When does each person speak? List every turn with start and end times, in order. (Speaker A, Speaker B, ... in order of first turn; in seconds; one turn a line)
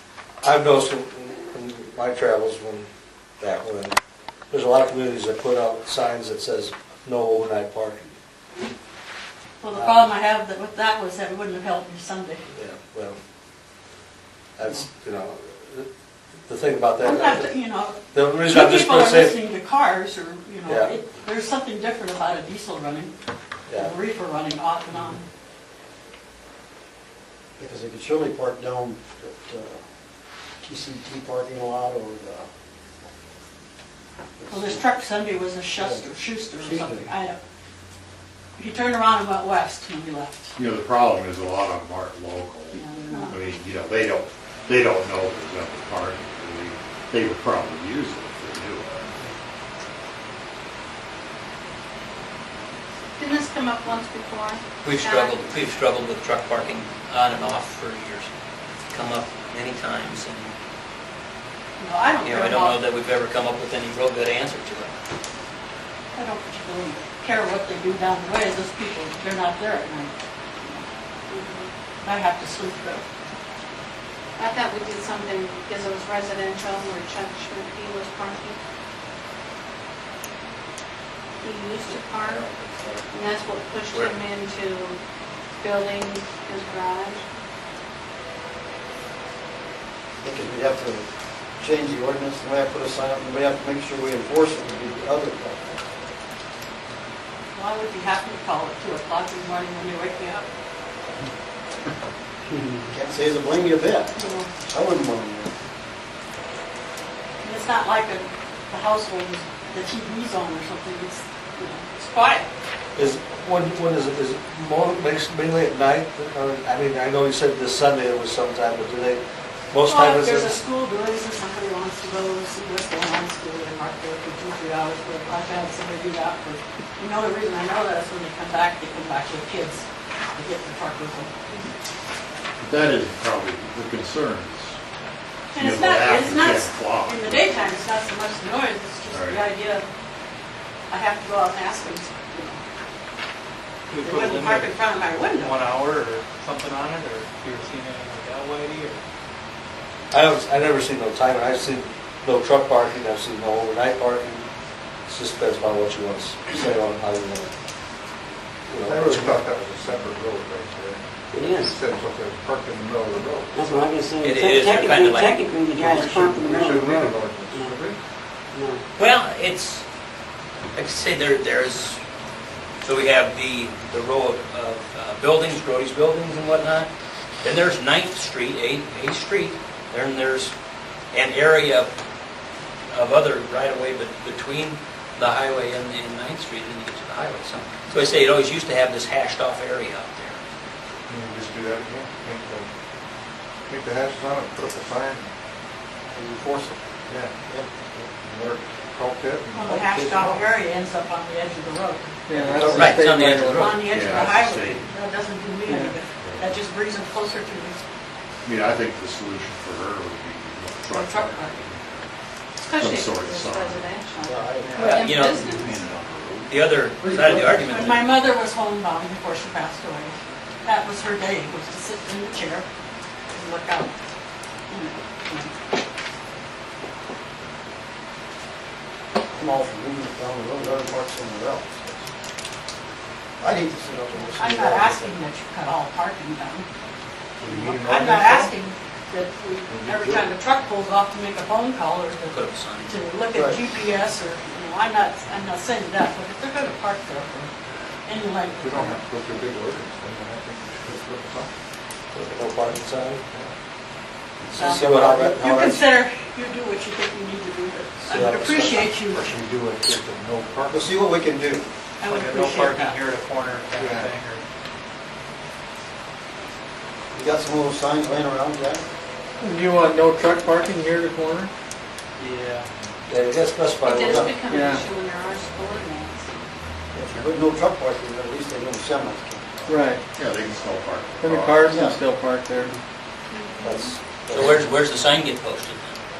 Speaker A: 0.4-2.9
Speaker A: 3.4-4.0
Speaker A: 4.5-8.1
Speaker B: 9.6-12.4
Speaker A: 9.7-10.1
Speaker A: 12.5-13.2
Speaker A: 14.6-15.9
Speaker A: 16.4-17.5
Speaker B: 17.0-23.1
Speaker A: 18.1-19.4
Speaker A: 20.7-20.9
Speaker B: 23.7-25.2
Speaker C: 27.6-29.8
Speaker C: 30.6-32.5
Speaker C: 34.4-34.8
Speaker B: 34.5-37.4
Speaker C: 35.8-37.1
Speaker B: 38.6-40.5
Speaker D: 40.5-49.0
Speaker B: 42.7-43.3
Speaker E: 53.2-55.4
Speaker F: 54.8-58.3
Speaker F: 58.9-60.5
Speaker B: 61.8-62.8
Speaker F: 62.2-64.9
Speaker B: 66.1-70.8
Speaker E: 71.3-71.7
Speaker B: 72.0-73.0
Speaker E: 74.4-78.6
Speaker E: 81.4-82.4
Speaker A: 82.2-83.0
Speaker E: 83.1-85.0
Speaker E: 85.6-87.2
Speaker C: 90.2-91.1
Speaker C: 91.6-95.8
Speaker B: 97.5-100.5
Speaker C: 102.9-105.5
Speaker B: 104.2-104.5
Speaker B: 107.4-112.5
Speaker A: 113.0-120.6
Speaker B: 119.8-131.3
Speaker D: 132.6-134.8
Speaker B: 135.5-139.8
Speaker D: 135.5-137.5
Speaker D: 139.1-139.4
Speaker B: 140.9-142.6
Speaker G: 143.9-149.0
Speaker B: 144.0-145.5
Speaker A: 150.1-154.4
Speaker A: 155.1-157.5
Speaker A: 158.7-159.4
Speaker H: 158.8-163.8
Speaker I: 161.3-161.8
Speaker I: 163.5-167.9
Speaker F: 164.2-166.3
Speaker H: 165.9-167.8
Speaker I: 168.5-168.8
Speaker F: 169.0-169.8
Speaker F: 170.7-172.0
Speaker F: 172.8-176.9
Speaker F: 177.4-180.5
Speaker F: 181.1-181.9
Speaker F: 182.9-190.4
Speaker H: 191.1-192.7
Speaker H: 193.7-195.3
Speaker C: 196.1-196.8
Speaker H: 197.1-197.3
Speaker C: 197.4-198.1
Speaker H: 198.2-199.9
Speaker B: 199.5-202.7
Speaker C: 199.7-200.4
Speaker J: 202.3-203.6
Speaker C: 202.5-202.9
Speaker F: 202.8-204.2
Speaker B: 203.6-207.8
Speaker D: 203.8-204.9
Speaker J: 205.7-205.9
Speaker D: 206.2-206.6
Speaker D: 208.4-212.1
Speaker B: 210.9-211.6
Speaker E: 212.6-215.8
Speaker D: 212.7-213.9
Speaker C: 214.2-214.9
Speaker G: 214.6-214.9
Speaker F: 214.8-215.4
Speaker D: 215.4-217.4
Speaker F: 216.5-218.1
Speaker B: 217.5-222.7
Speaker B: 223.3-223.9
Speaker B: 224.7-225.6
Speaker C: 229.3-232.1
Speaker C: 233.4-235.2
Speaker B: 234.3-236.7
Speaker H: 237.4-238.5
Speaker B: 237.7-247.5
Speaker H: 239.7-240.3
Speaker F: 242.3-243.0
Speaker C: 243.3-243.7
Speaker B: 248.1-249.0
Speaker H: 248.5-251.5
Speaker A: 252.1-253.2
Speaker H: 253.3-253.5
Speaker A: 254.5-255.8
Speaker B: 254.5-259.3
Speaker C: 254.6-255.3
Speaker A: 258.1-258.9
Speaker H: 259.0-260.9
Speaker C: 260.7-261.7
Speaker B: 262.0-263.0
Speaker G: 262.0-264.4
Speaker H: 263.7-264.1
Speaker C: 267.1-268.8
Speaker J: 269.5-271.5
Speaker G: 272.2-272.7
Speaker A: 273.1-274.3
Speaker E: 273.8-276.3
Speaker C: 276.9-279.7
Speaker J: 279.7-280.0
Speaker D: 280.1-281.8
Speaker J: 281.2-282.7
Speaker C: 281.7-281.9
Speaker E: 283.3-283.9
Speaker A: 283.6-284.7
Speaker F: 284.3-286.0